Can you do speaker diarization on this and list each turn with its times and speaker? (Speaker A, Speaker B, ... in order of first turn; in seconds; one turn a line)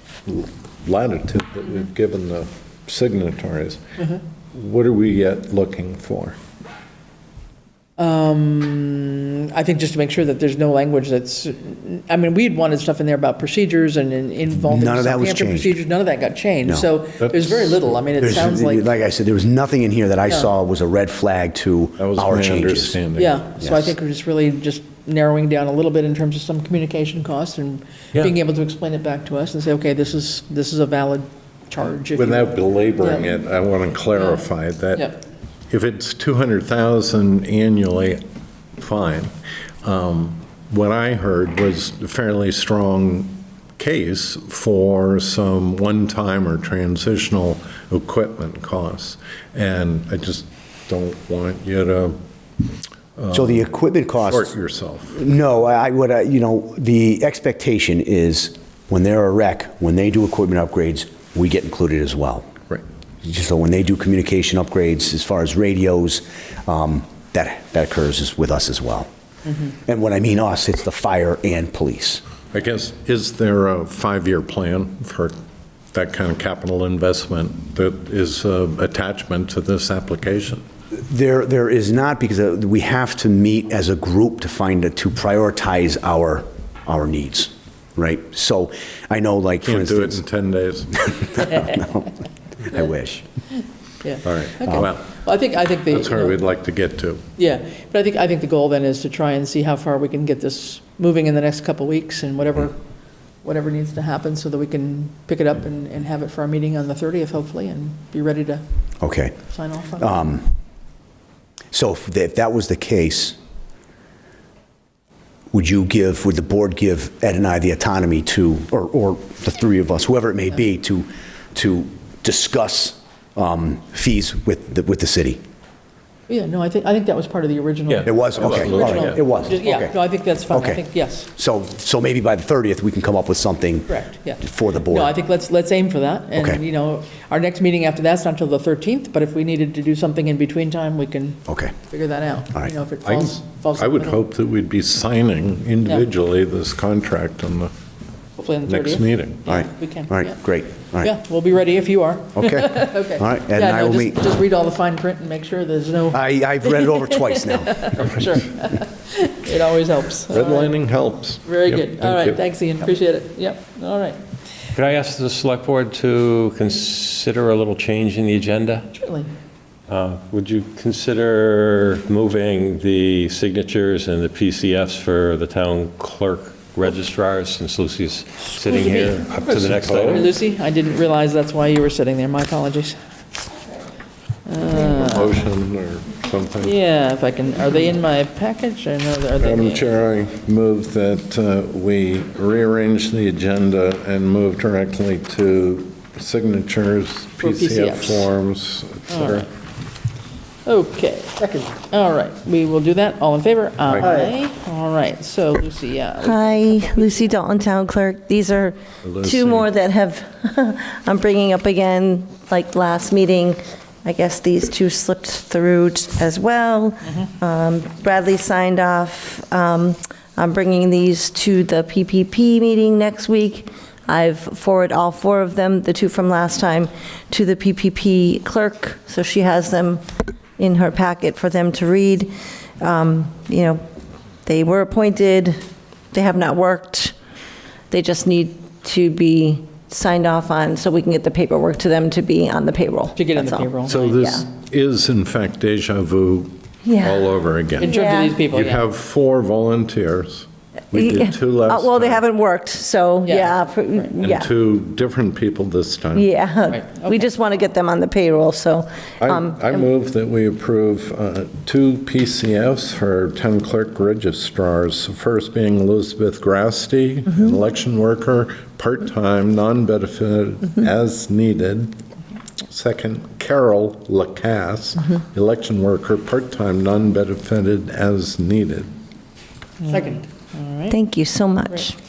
Speaker A: 0.2-3.8
Speaker A: 4.5-6.3
Speaker B: 8.0-19.0
Speaker C: 14.6-15.8
Speaker A: 17.2-17.6
Speaker C: 18.2-23.0
Speaker A: 22.0-23.4
Speaker B: 23.1-33.4
Speaker C: 23.6-23.9
Speaker A: 32.1-35.2
Speaker B: 34.9-35.2
Speaker A: 35.7-38.2
Speaker A: 38.8-39.3
Speaker A: 39.8-52.2
Speaker A: 53.2-53.7
Speaker C: 53.3-54.5
Speaker A: 54.2-55.2
Speaker C: 55.1-62.5
Speaker C: 63.2-69.1
Speaker C: 69.8-72.2
Speaker A: 72.5-75.3
Speaker A: 75.9-80.6
Speaker C: 81.1-90.2
Speaker A: 89.6-91.5
Speaker C: 91.0-93.2
Speaker B: 94.0-96.4
Speaker A: 94.2-95.2
Speaker A: 95.9-97.2
Speaker B: 97.4-102.8
Speaker B: 103.4-108.6
Speaker C: 109.0-109.3
Speaker B: 109.5-110.2
Speaker C: 110.0-110.5
Speaker C: 111.7-113.4
Speaker C: 115.5-125.4
Speaker B: 126.3-131.3
Speaker D: 127.9-129.2
Speaker C: 128.0-129.9
Speaker C: 130.5-135.1
Speaker B: 133.9-144.2
Speaker C: 136.3-136.6
Speaker C: 141.5-141.7
Speaker A: 143.0-147.7
Speaker B: 148.3-150.3
Speaker A: 148.7-149.4
Speaker C: 149.5-151.1
Speaker B: 151.0-160.7
Speaker C: 152.3-154.2
Speaker C: 156.1-158.0
Speaker A: 160.3-162.4
Speaker B: 161.4-164.2
Speaker D: 164.7-168.9
Speaker B: 168.9-169.3
Speaker D: 169.9-180.3
Speaker B: 178.5-179.3
Speaker A: 179.4-180.3
Speaker B: 180.1-182.9
Speaker B: 184.4-185.4
Speaker A: 184.7-186.7
Speaker B: 186.6-189.9
Speaker A: 189.4-199.5
Speaker B: 197.4-198.3
Speaker B: 199.1-199.5
Speaker B: 200.6-207.3
Speaker A: 203.9-204.1
Speaker E: 206.2-230.0
Speaker A: 209.0-209.7
Speaker E: 230.6-233.8
Speaker E: 234.4-235.6
Speaker E: 236.1-237.1
Speaker E: 237.9-244.5
Speaker B: 243.1-244.1
Speaker A: 243.8-247.9
Speaker E: 246.8-248.4
Speaker B: 247.8-248.8
Speaker A: 248.5-252.3
Speaker E: 250.9-254.5
Speaker B: 253.2-254.1
Speaker A: 254.2-256.3
Speaker E: 256.1-259.9
Speaker B: 256.7-257.3
Speaker A: 259.2-272.0
Speaker A: 272.7-278.9
Speaker B: 279.8-281.0
Speaker E: 280.9-281.9